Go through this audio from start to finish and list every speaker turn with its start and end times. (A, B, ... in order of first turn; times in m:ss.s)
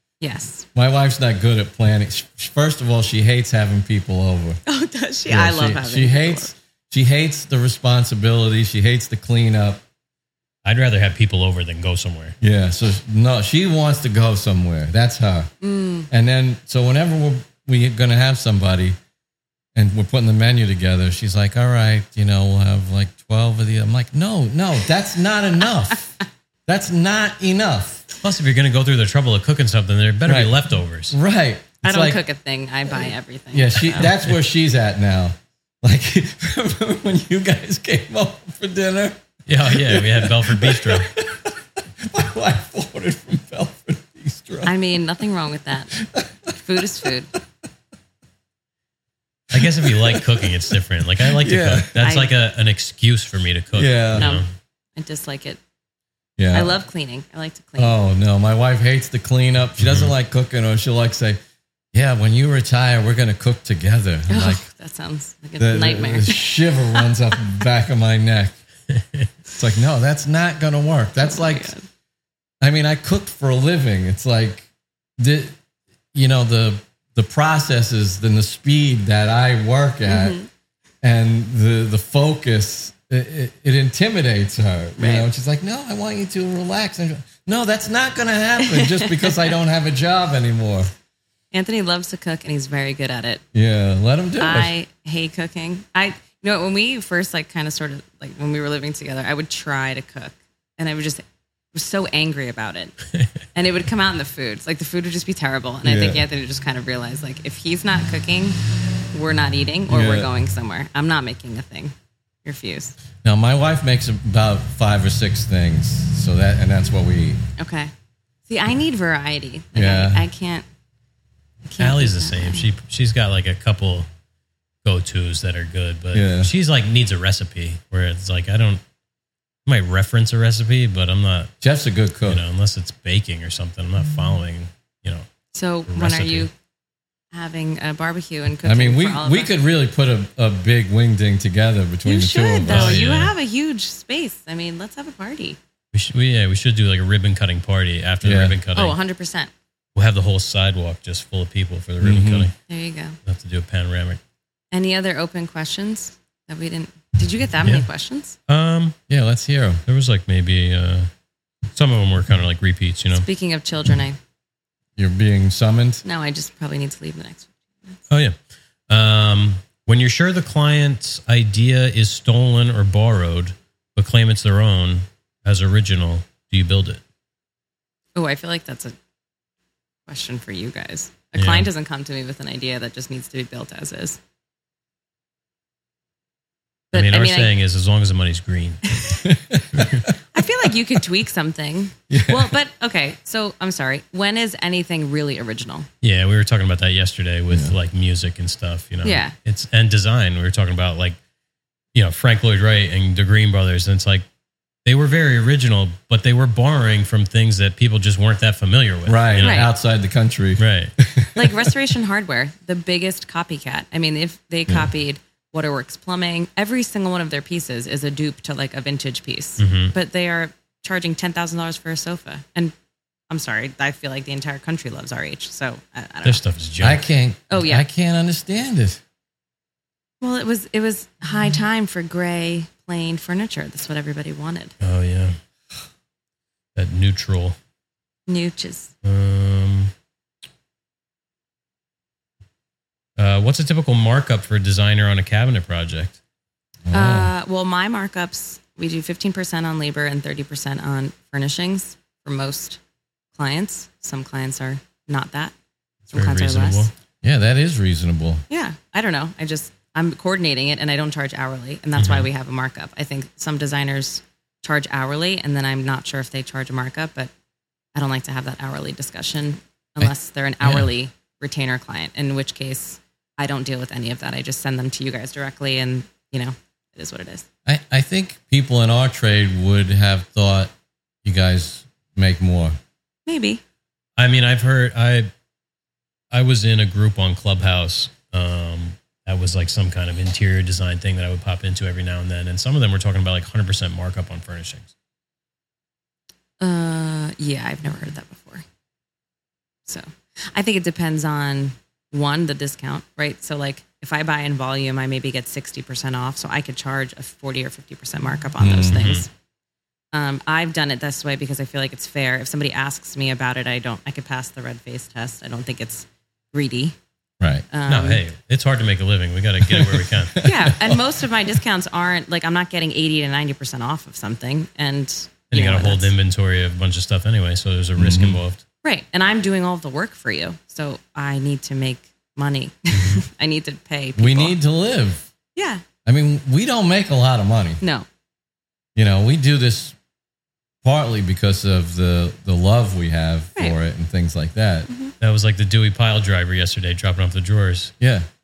0:00.2-0:00.7 A
0:00.8-0:04.6 B
0:04.7-0:06.5 A
0:05.3-0:09.8 B
0:10.6-0:12.4 C
0:12.4-0:15.5 B
0:15.6-0:16.1 A
0:16.1-0:19.0 B
0:19.8-0:28.1 B
0:28.2-0:31.2 C
0:30.3-0:30.5 B
0:31.1-0:32.2 B
0:31.8-0:34.1 A
0:33.5-0:44.7 B
0:39.5-0:41.1 C
0:44.6-0:45.9 A
0:45.9-0:46.5 B
0:46.5-0:47.3 A
0:49.5-0:52.1 B
0:49.5-0:54.4 C
0:52.0-0:52.3 A
0:53.7-0:54.3 B
0:54.2-0:54.4 A
0:55.0-0:55.6 A
0:56.4-0:56.7 B
0:56.5-0:58.0 A
0:57.8-1:01.4 B
0:59.8-1:00.1 C
1:01.9-1:04.6 B
1:04.3-1:07.1 A
1:05.6-1:08.6 B
1:08.9-1:09.3 C
1:09.5-1:11.7 B
1:11.2-1:11.8 A
1:12.6-1:14.7 B
1:15.2-1:15.6 B
1:16.1-1:20.4 B
1:20.1-1:20.5 A
1:21.0-1:30.9 B
1:25.0-1:25.3 A
1:28.6-1:29.5 A
1:31.5-1:33.4 A
1:33.5-1:34.7 B
1:34.4-1:41.2 A
1:41.7-1:43.0 A
1:43.6-1:48.6 A
1:45.8-1:46.2 B
1:49.1-1:53.0 A
1:49.9-1:50.3 B
1:53.2-1:57.4 B
1:57.6-1:57.9 A
1:58.5-2:00.7 A
1:59.7-2:00.3 B
2:01.7-2:02.7 A
2:01.8-2:04.1 C
2:04.8-2:08.8 C
2:06.1-2:06.5 B
2:09.7-2:11.6 C
2:11.6-2:12.4 B
2:12.3-2:15.3 C
2:15.5-2:16.5 A
2:15.9-2:16.5 C
2:17.3-2:19.5 A
2:18.6-2:23.1 B
2:22.0-2:25.6 A
2:22.7-2:23.3 C
2:25.9-2:29.0 C
2:28.2-2:28.6 B
2:28.7-2:29.5 A
2:30.0-2:32.6 C
2:32.0-2:32.5 B
2:32.7-2:33.2 A
2:33.2-2:34.2 C
2:34.7-2:38.4 A
2:38.5-2:39.0 C
2:39.1-2:39.8 B
2:39.9-2:41.1 C
2:41.7-2:43.3 C
2:43.1-2:44.2 A
2:45.0-2:46.0 B
2:46.0-2:48.0 A
2:48.1-2:48.4 C
2:48.9-2:57.0 C
2:58.2-2:58.9 A
3:00.1-3:04.2 A
3:01.4-3:01.7 C
3:06.9-3:07.5 A
3:06.9-3:09.0 C
3:09.2-3:10.1 B
3:09.7-3:10.1 C
3:10.3-3:15.9 A
3:12.1-3:12.6 B
3:16.0-3:21.2 C
3:17.5-3:17.8 B
3:19.0-3:19.4 A
3:21.9-3:24.2 C
3:24.8-3:29.7 C
3:29.1-3:31.7 B
3:29.4-3:29.7 A
3:30.6-3:30.9 C
3:31.4-3:42.8 A
3:39.6-3:40.0 C
3:43.3-3:46.4 A
3:46.2-3:47.0 C
3:46.8-3:49.0 B
3:47.5-3:47.9 A
3:50.2-3:54.7 A
3:54.8-3:55.4 C
3:56.8-3:57.6 C
3:58.3-3:58.9 A
3:59.0-3:59.9 C
4:03.2-4:06.2 C
4:06.9-4:07.3 B
4:06.9-4:12.8 A
4:13.3-4:15.5 A
4:16.1-4:16.9 C
4:16.1-4:16.9 A
4:17.2-4:18.4 B
4:18.5-4:27.3 A
4:22.0-4:22.3 C
4:27.9-4:37.5 A
4:37.7-4:40.7 B
4:41.2-4:42.8 B
4:43.3-4:43.6 A
4:44.2-4:45.3 C
4:46.3-4:54.9 C
4:56.6-4:58.6 A
4:59.9-5:09.3 A
5:08.6-5:09.0 B
5:08.9-5:09.3 C
5:10.1-5:17.0 A
5:17.4-5:17.6 B
5:17.7-5:18.2 A
5:17.9-5:20.5 C
5:19.7-5:21.0 B
5:20.4-5:26.1 A
5:25.5-5:28.6 C
5:28.0-5:28.4 B
5:28.8-5:34.6 A
5:32.9-5:33.2 C
5:34.2-5:35.3 B
5:35.6-5:35.8 A
5:36.1-5:37.8 B
5:37.8-5:38.1 A
5:39.0-5:40.0 B
5:40.8-5:44.9 B
5:44.9-5:45.1 A
5:45.2-5:47.9 C
5:48.0-5:48.3 B